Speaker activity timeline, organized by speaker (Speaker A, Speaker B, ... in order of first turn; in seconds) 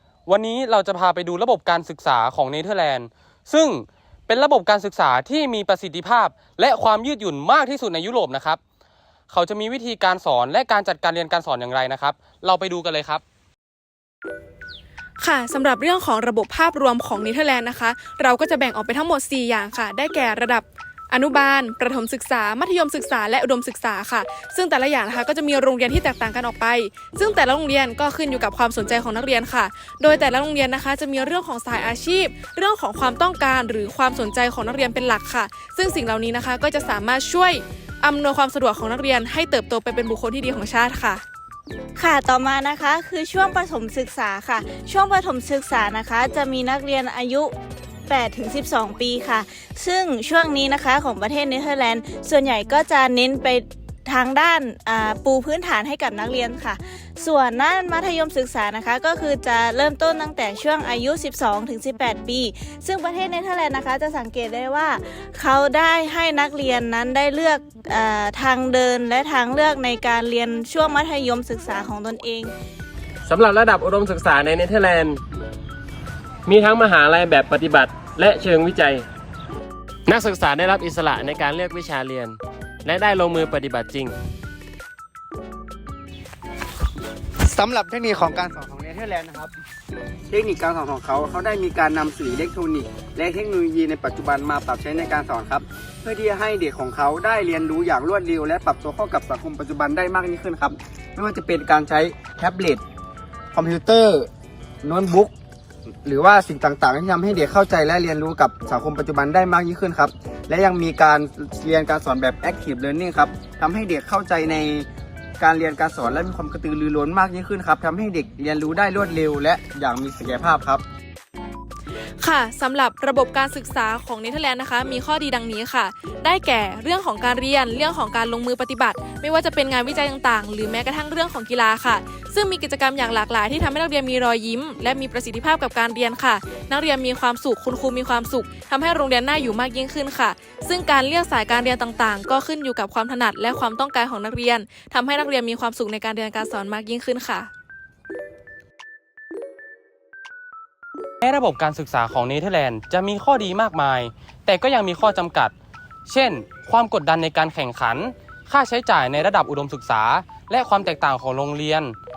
Speaker A: 0.3-8.6, 9.3-13.2, 151.2-155.5, 156.1-162.0
Speaker B: 15.2-41.2, 122.2-147.5
Speaker C: 42.0-47.5, 48.1-72.5
Speaker D: 73.2-75.2, 76.5-79.1, 80.1-84.2
Speaker E: 87.5-89.5, 90.3-102.8, 103.5-104.3, 104.8-105.3, 106.0-114.9, 115.4-120.8